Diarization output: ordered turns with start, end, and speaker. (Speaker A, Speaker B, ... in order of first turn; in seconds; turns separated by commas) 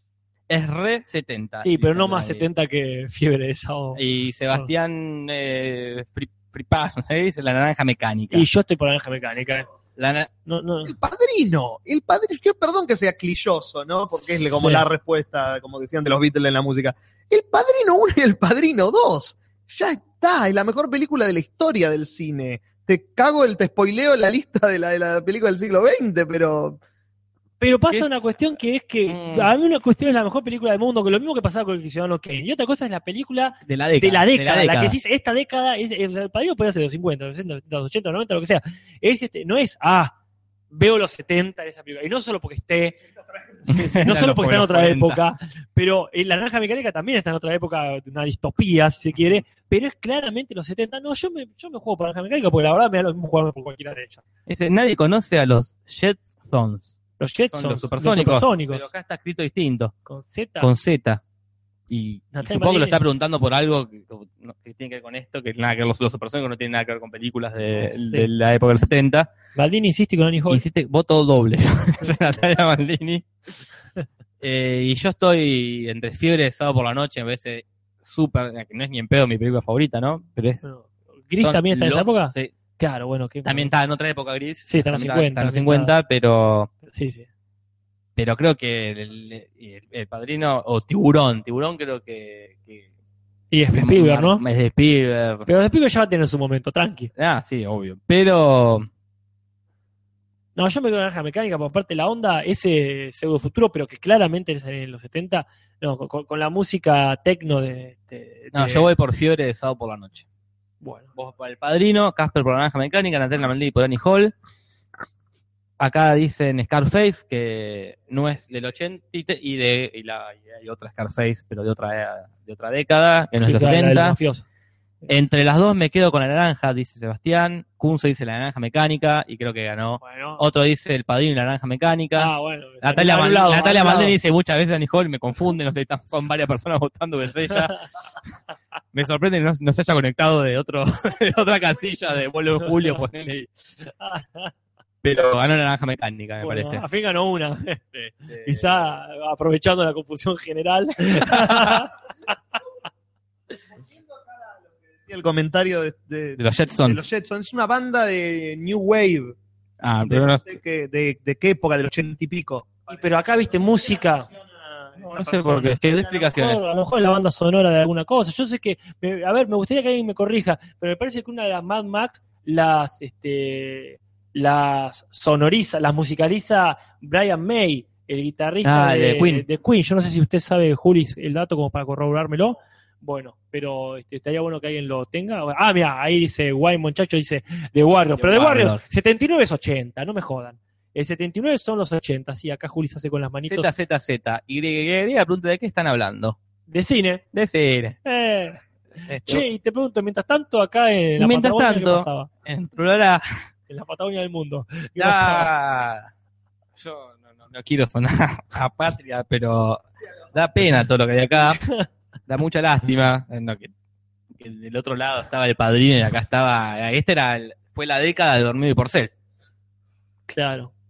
Speaker A: 0.5-2.5, Speaker B: 1.6-4.0, Speaker A: 4.0-8.5, Speaker B: 8.3-9.7, Speaker A: 10.0-10.3, Speaker B: 10.5-10.9, Speaker C: 10.8-26.8, Speaker B: 14.5-14.8, Speaker B: 27.6-40.1, Speaker A: 29.1-29.5, Speaker A: 33.6-35.0, Speaker B: 40.7-43.0, Speaker B: 43.6-54.2, Speaker A: 43.7-45.2, Speaker A: 54.5-56.9, Speaker B: 57.2-58.9, Speaker A: 57.5-59.9, Speaker B: 60.1-60.7, Speaker A: 60.6-61.2, Speaker A: 61.9-69.3, Speaker B: 62.3-63.0, Speaker B: 69.5-70.6, Speaker A: 70.5-73.3, Speaker A: 74.4-80.6, Speaker B: 80.6-83.7, Speaker A: 81.4-82.5, Speaker A: 83.5-86.7, Speaker B: 84.7-85.9, Speaker B: 86.9-87.3, Speaker A: 88.2-92.8, Speaker B: 93.5-94.4, Speaker A: 93.7-95.5, Speaker B: 95.5-97.1, Speaker A: 97.2-98.9, Speaker B: 100.6-108.9, Speaker A: 108.5-110.2, Speaker B: 110.8-111.1, Speaker A: 111.2-114.3, Speaker A: 115.8-124.2, Speaker B: 123.4-124.4, Speaker A: 125.1-137.8, Speaker B: 130.0-130.4, Speaker B: 132.2-134.2, Speaker A: 138.9-143.5, Speaker B: 142.7-142.9, Speaker B: 144.0-144.5, Speaker A: 145.0-146.8, Speaker B: 146.4-147.8, Speaker A: 147.9-148.9, Speaker B: 148.4-151.9, Speaker A: 151.3-151.9, Speaker C: 153.8-159.4, Speaker A: 156.4-157.0, Speaker A: 159.8-160.5, Speaker C: 160.1-163.0, Speaker B: 162.9-164.3, Speaker C: 164.2-165.7, Speaker A: 165.0-166.6, Speaker B: 165.2-193.7, Speaker A: 178.6-179.5, Speaker A: 188.2-188.8, Speaker A: 193.4-196.4, Speaker B: 196.7-197.2, Speaker A: 197.3-198.0, Speaker B: 198.1-198.6, Speaker A: 199.1-199.5, Speaker B: 199.2-202.3, Speaker A: 201.2-203.2, Speaker B: 203.7-205.5, Speaker A: 205.0-206.1, Speaker A: 206.8-211.6, Speaker B: 211.6-211.9, Speaker A: 212.3-213.7, Speaker A: 214.3-219.1, Speaker B: 220.3-220.7